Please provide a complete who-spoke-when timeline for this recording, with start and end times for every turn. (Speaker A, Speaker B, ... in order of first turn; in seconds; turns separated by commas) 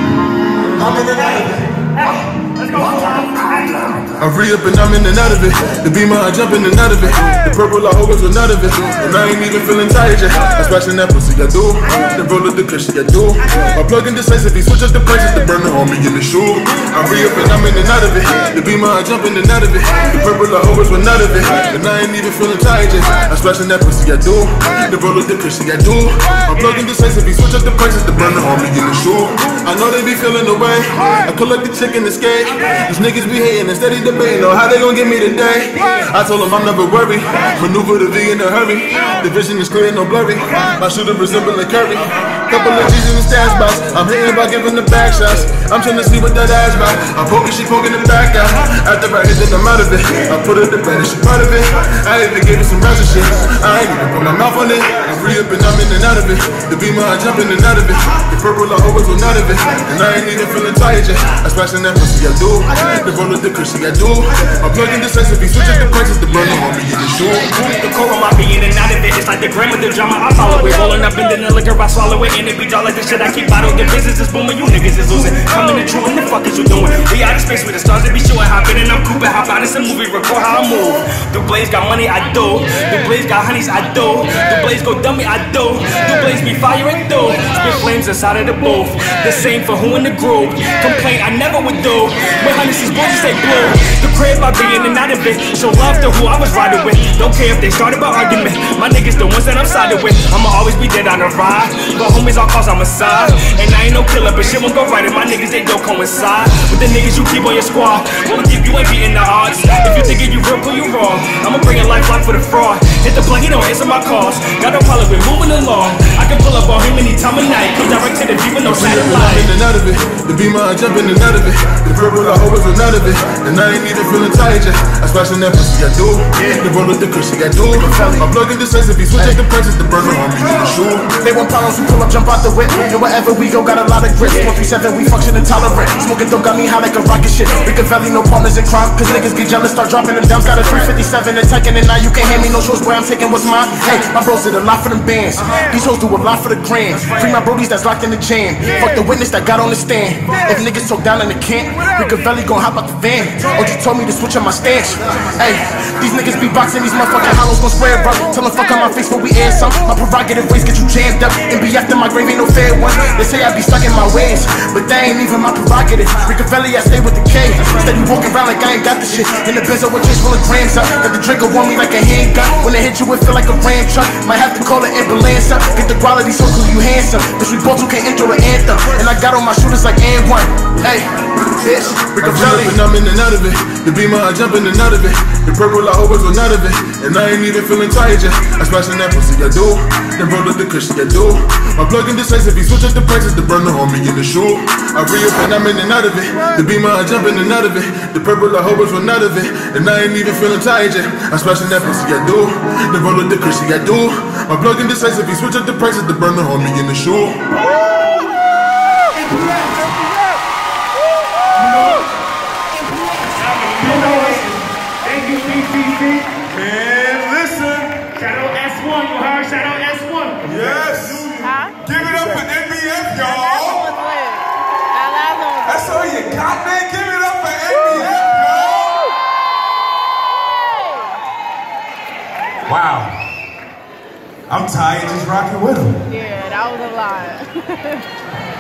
Speaker A: 1.2-1.4, Speaker A: 1.9-4.0, Speaker B: 4.2-67.5, Speaker A: 67.5-119.5, Speaker B: 118.6-131.2, Speaker C: 126.3-126.7, Speaker C: 127.7-128.3, Speaker C: 129.1-129.4, Speaker C: 131.2-181.1, Speaker C: 181.6-182.8, Speaker B: 182.2-207.4, Speaker D: 207.7-208.2, Speaker A: 213.4-216.3, Speaker D: 213.8-214.4, Speaker D: 216.5-218.2, Speaker A: 218.2-220.5, Speaker D: 220.4-223.9, Speaker E: 221.4-221.8, Speaker E: 223.2-225.9, Speaker D: 225.7-229.0, Speaker E: 230.7-231.2, Speaker D: 232.7-233.2, Speaker D: 234.5-236.1, Speaker E: 236.1-238.0